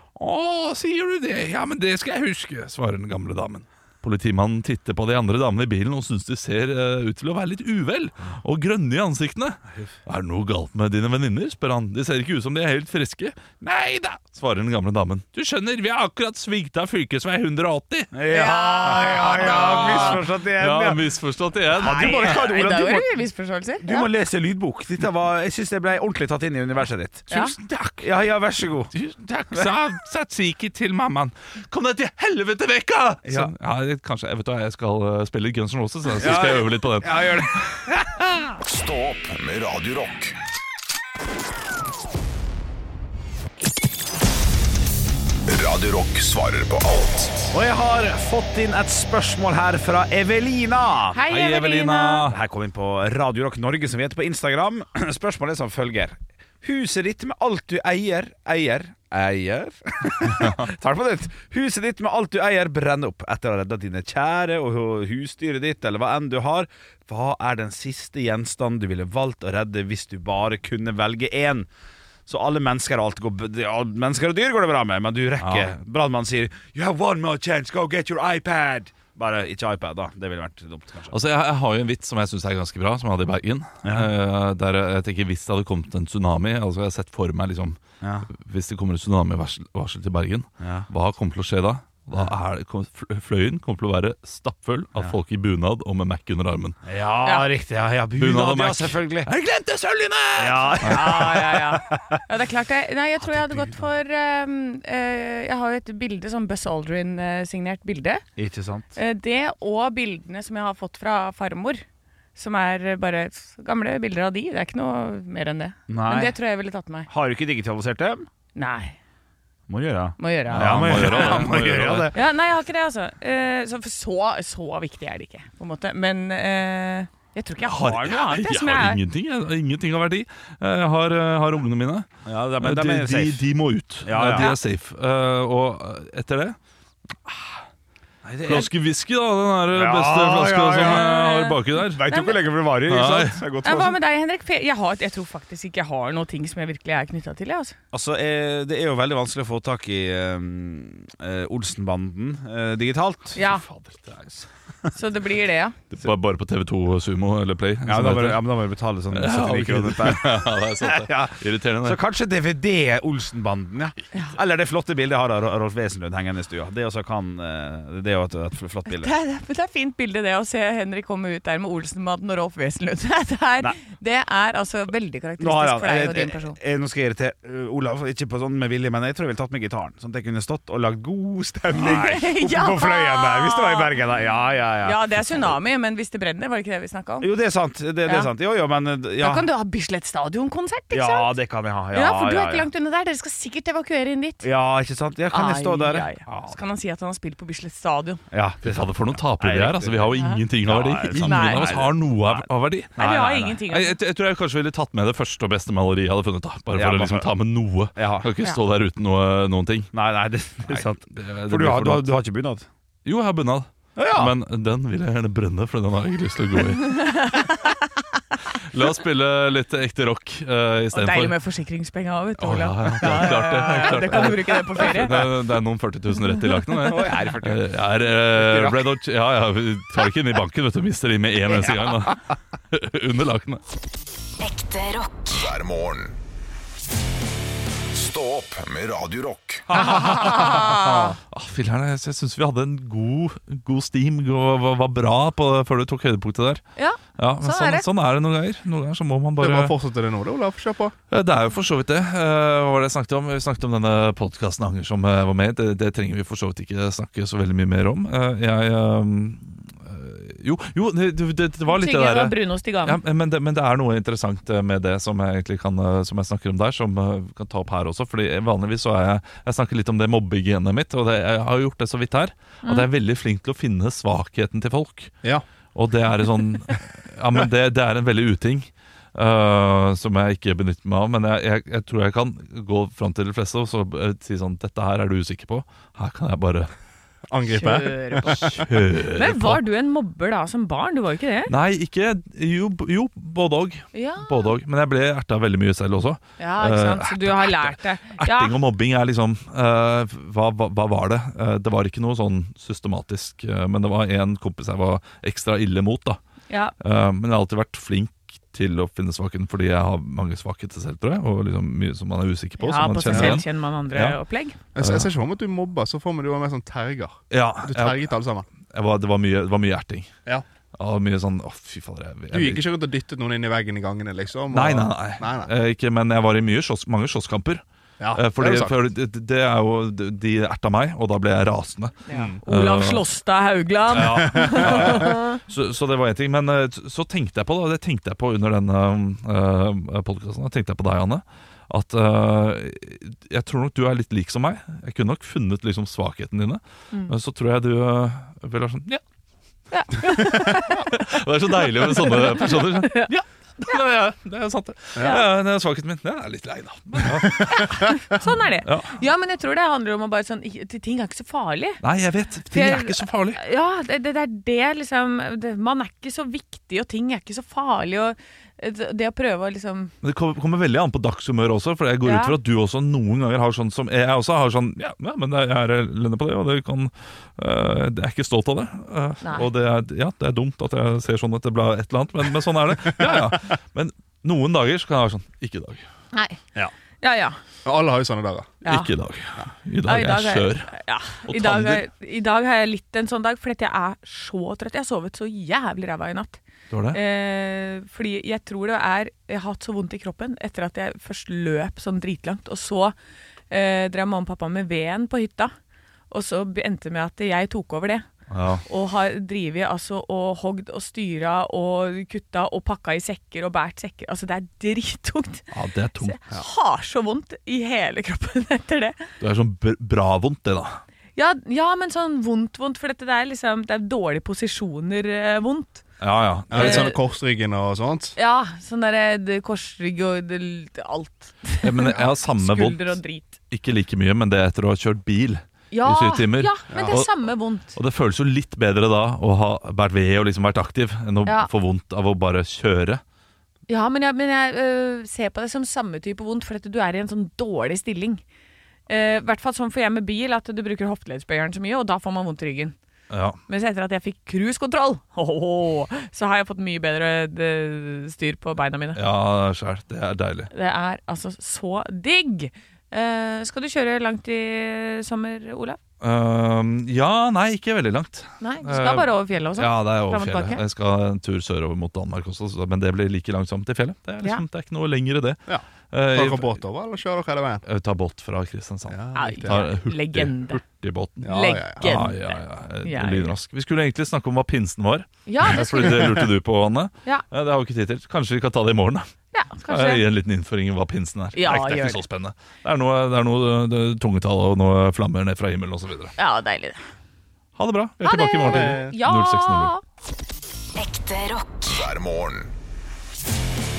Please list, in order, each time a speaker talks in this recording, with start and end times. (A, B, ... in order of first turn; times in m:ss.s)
0:00.2-0:18.1 A
0:18.1-0:21.0 B
0:18.3-0:20.2 C
0:19.2-0:22.3 A
0:21.8-0:23.1 B
0:21.9-0:24.1 C
0:23.8-0:27.3 B
0:27.3-0:28.1 A
0:28.0-0:28.9 B
0:28.9-0:37.8 A
0:33.2-0:33.5 B
0:36.2-0:38.4 B
0:38.6-0:40.4 D
0:45.5-0:47.5 D
0:47.5-0:51.2 B
0:51.1-0:52.3 C
0:51.3-0:52.4 A
0:52.3-1:11.7 B
1:12.3-1:21.2 B
1:15.4-1:15.7 A
1:21.1-1:36.8 A
1:23.8-1:24.1 B
1:28.0-1:28.3 B
1:30.6-1:30.9 B
1:36.8-1:39.3 B
1:38.2-1:41.4 A
1:40.4-1:42.2 B
1:40.8-1:48.2 C
1:43.3-1:43.9 B
1:48.4-1:48.9 B
1:49.0-1:51.8 C
1:52.4-1:57.1 C
1:55.9-1:56.4 B
1:57.1-1:58.3 B
1:58.6-1:59.0 C
1:59.7-2:02.2 B
2:00.2-2:01.4 C
2:00.5-2:02.1 A
2:02.1-2:09.0 C
2:07.6-2:12.1 A
2:12.3-2:13.5 B
2:12.6-2:16.6 A
2:14.0-2:14.6 B
2:17.3-2:17.5 A
2:18.2-2:18.7 B
2:18.4-2:22.1 A
2:19.7-2:24.0 B
2:20.8-2:22.4 C
2:22.9-2:23.4 A
2:23.6-2:27.8 C
2:27.9-2:33.4 B
2:33.4-2:33.7 C
2:33.4-2:34.4 A
2:34.9-2:35.8 C
2:35.9-2:38.4 A
2:37.8-2:49.1 B
2:39.1-2:42.0 A
2:48.9-2:56.6 C
2:55.4-3:05.6 B
3:01.8-3:04.0 C
3:04.8-3:07.3 C
3:07.2-3:09.5 B
3:09.2-3:11.3 C
3:10.9-3:12.7 B
3:11.9-3:14.4 C
3:14.4-3:16.1 B
3:15.3-3:18.2 C
3:16.3-3:16.6 A
3:18.3-3:23.6 B
3:18.6-3:29.9 A
3:21.2-3:21.7 C
3:23.0-3:24.0 C
3:26.7-3:27.3 B
3:28.0-3:28.3 B
3:29.9-3:32.7 B
3:30.6-3:32.1 A
3:33.0-3:37.3 A
3:34.0-3:34.3 B
3:36.8-3:37.9 C
3:38.7-3:41.4 A
3:40.9-3:45.3 C
3:42.4-3:53.6 A
3:46.8-3:48.8 B
3:51.5-3:52.0 B
3:54.4-3:55.5 E
3:55.4-3:56.2 D
3:57.9-3:59.9 D
3:59.7-4:06.6 A
3:59.8-4:01.2 C
4:06.8-4:07.9 C
4:07.2-4:09.8 A
4:09.4-4:11.0 F
4:11.1-4:35.1 A
4:21.7-4:23.0 C
4:35.8-4:46.7 A
4:47.3-4:48.6 F
4:47.5-4:51.5 C
4:48.4-4:49.6 A
4:51.5-5:06.2 A
4:53.9-4:54.5 C
4:56.4-4:58.6 C
5:06.8-5:14.2 A
5:12.6-5:14.6 C
5:13.1-5:13.4 F
5:14.8-5:18.5 F
5:14.8-5:15.1 A
5:17.3-5:18.1 A
5:18.6-5:20.1 A
5:20.8-5:22.6 A
5:22.3-5:25.5 F
5:24.5-5:27.6 A
5:28.0-5:28.8 F
5:28.1-5:33.0 A
5:32.1-5:35.4 C
5:32.1-5:32.4 F
5:33.9-5:49.0 A
5:34.4-5:34.7 F
5:49.7-5:50.9 C
5:50.1-5:58.0 A
5:51.6-5:53.1 C
5:57.1-5:57.6 F
5:57.5-6:01.8 C
5:58.6-5:59.0 A
6:01.8-6:03.4 A
6:02.5-6:09.9 C
6:10.0-6:25.8 A
6:12.0-6:12.4 C
6:19.2-6:19.5 C
6:26.1-6:26.4 C
6:27.0-6:27.4 C
6:27.7-6:28.5 F
6:28.6-6:28.9 C
6:28.6-6:31.8 A
6:29.8-6:36.4 C
6:36.7-6:37.0 A
6:36.9-6:43.0 C
6:43.5-6:45.5 C
6:46.1-6:48.1 C
6:48.3-6:48.6 A
6:48.7-6:55.5 C
6:55.5-6:56.4 A
6:56.0-6:59.1 C
6:59.2-7:00.8 A
7:01.2-7:05.8 C
7:06.0-7:07.0 A
7:06.5-7:08.2 F
7:06.5-7:07.0 C
7:08.2-7:13.4 C
7:11.6-7:13.0 A
7:13.5-7:17.1 A
7:15.7-7:17.8 C
7:16.7-7:17.0 F
7:17.7-7:23.0 A
7:21.3-7:21.5 C
7:23.7-7:28.2 C
7:28.9-7:32.8 C
7:33.1-7:33.4 A
7:33.5-7:39.0 C
7:38.9-7:40.5 A
7:40.5-7:45.8 C
7:46.0-7:55.4 A
7:48.4-7:50.6 C
7:55.5-7:57.6 F
7:55.9-7:56.6 A
7:57.6-8:09.1 A
7:58.9-7:59.6 F
7:59.1-8:00.6 C
8:01.2-8:01.8 F
8:01.2-8:03.4 C
8:05.3-8:06.2 C
8:09.3-8:10.0 C
8:09.7-8:16.1 A
8:11.3-8:12.0 C
8:16.2-8:16.8 C
8:17.6-8:19.7 A
8:18.0-8:19.8 C
8:18.4-8:18.9 F
8:20.8-8:21.9 E
8:21.7-8:22.5 D